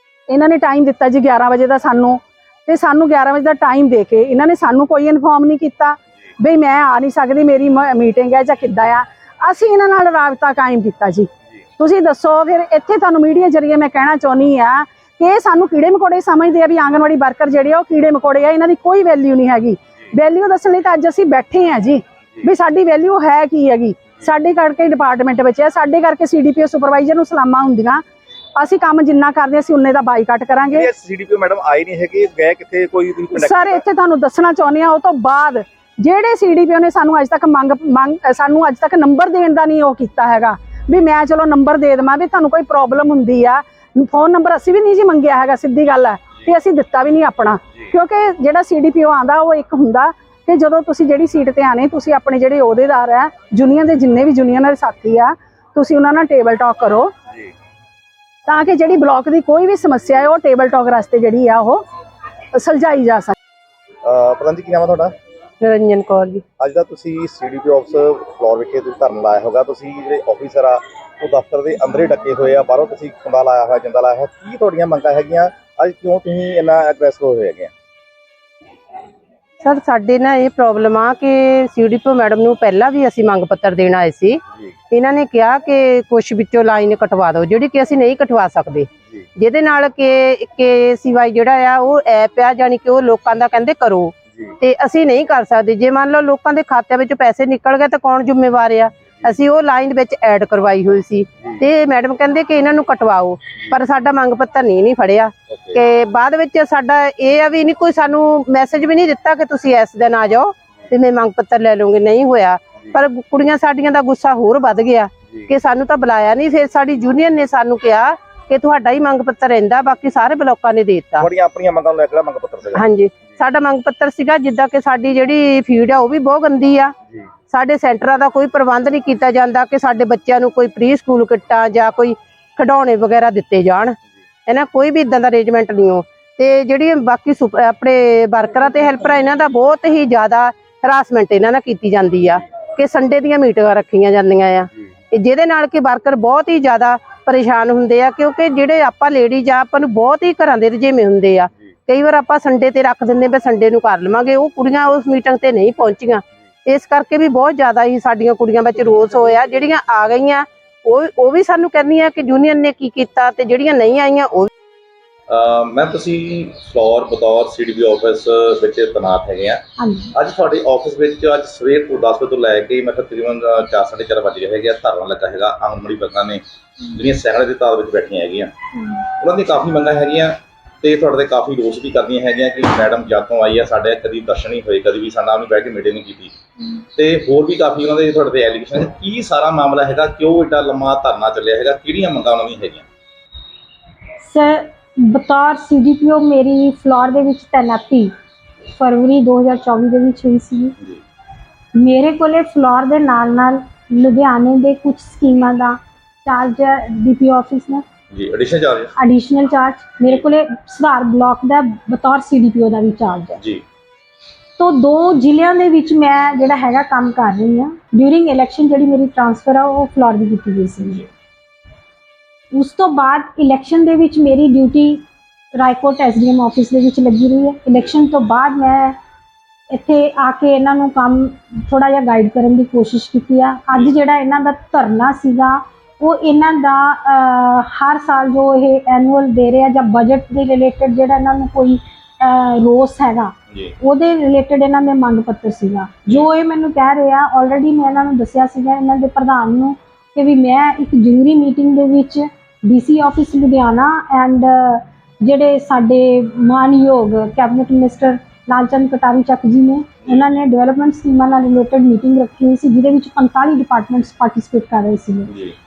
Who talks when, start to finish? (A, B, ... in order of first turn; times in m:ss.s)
0:00.3-0:11.3 A
0:11.8-0:28.0 A
0:28.6-0:30.9 A
0:30.7-0:33.8 B
0:33.3-0:57.1 A
0:58.4-1:01.8 A
1:02.5-1:03.3 A
1:04.0-1:05.1 B
1:05.6-1:06.4 C
1:06.6-1:17.7 B
1:19.6-2:01.3 C
2:01.2-2:02.8 B
2:02.7-2:06.9 C
2:07.5-2:44.5 C
2:45.3-2:49.6 B
2:49.8-2:50.1 D
2:50.1-2:58.5 B
2:59.2-3:06.3 B
3:07.0-3:12.8 B
3:14.2-3:18.1 D
3:18.7-3:20.8 D
3:21.7-3:27.8 D
3:28.1-3:28.9 B
3:29.0-3:33.4 D
3:34.6-3:41.0 D
3:42.5-3:45.0 D
3:45.6-3:49.0 D
3:49.7-4:25.3 D